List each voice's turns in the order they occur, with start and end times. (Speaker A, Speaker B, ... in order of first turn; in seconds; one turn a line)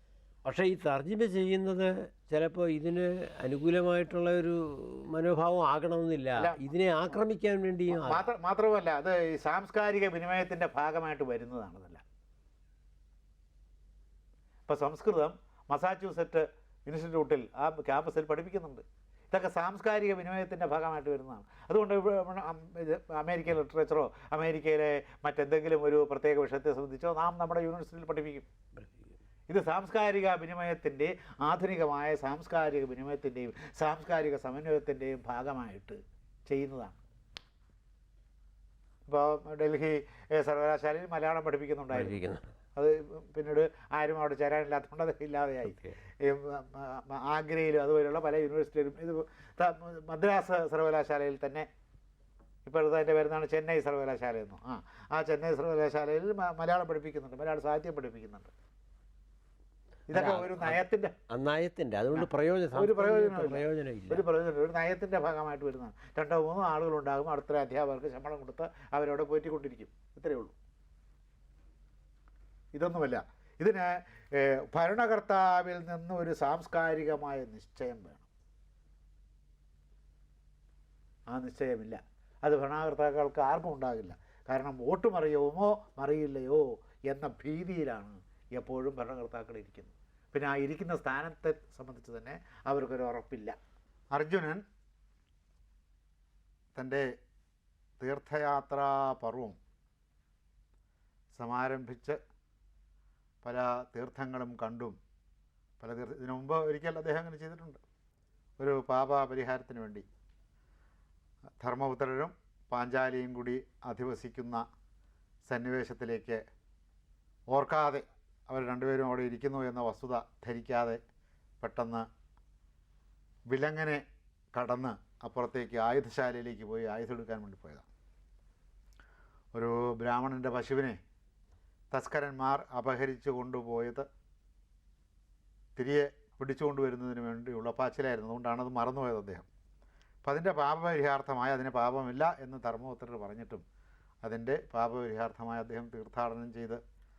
Speaker A: 0.4-8.3
Speaker B: 6.3-6.7
Speaker B: 7.9-12.0
Speaker B: 14.7-28.4
Speaker B: 29.5-37.0
Speaker B: 39.0-42.2
Speaker A: 41.9-42.4
Speaker B: 42.8-51.7
Speaker B: 52.6-58.5
Speaker B: 60.1-61.1
Speaker A: 60.1-60.8
Speaker A: 61.3-64.2
Speaker B: 62.1-70.5
Speaker B: 72.7-78.3
Speaker B: 81.3-93.5
Speaker B: 94.1-94.6
Speaker B: 96.7-97.1
Speaker B: 98.0-99.6
Speaker B: 101.3-102.2
Speaker B: 103.4-105.0
Speaker B: 105.8-107.8
Speaker B: 108.6-110.0
Speaker B: 111.6-114.6
Speaker B: 115.5-116.4
Speaker B: 117.5-121.0
Speaker B: 121.6-122.0
Speaker B: 123.5-124.0
Speaker B: 124.5-127.8
Speaker B: 129.5-131.0
Speaker B: 131.9-134.1
Speaker B: 135.8-139.5
Speaker B: 140.2-143.6
Speaker B: 144.2-146.8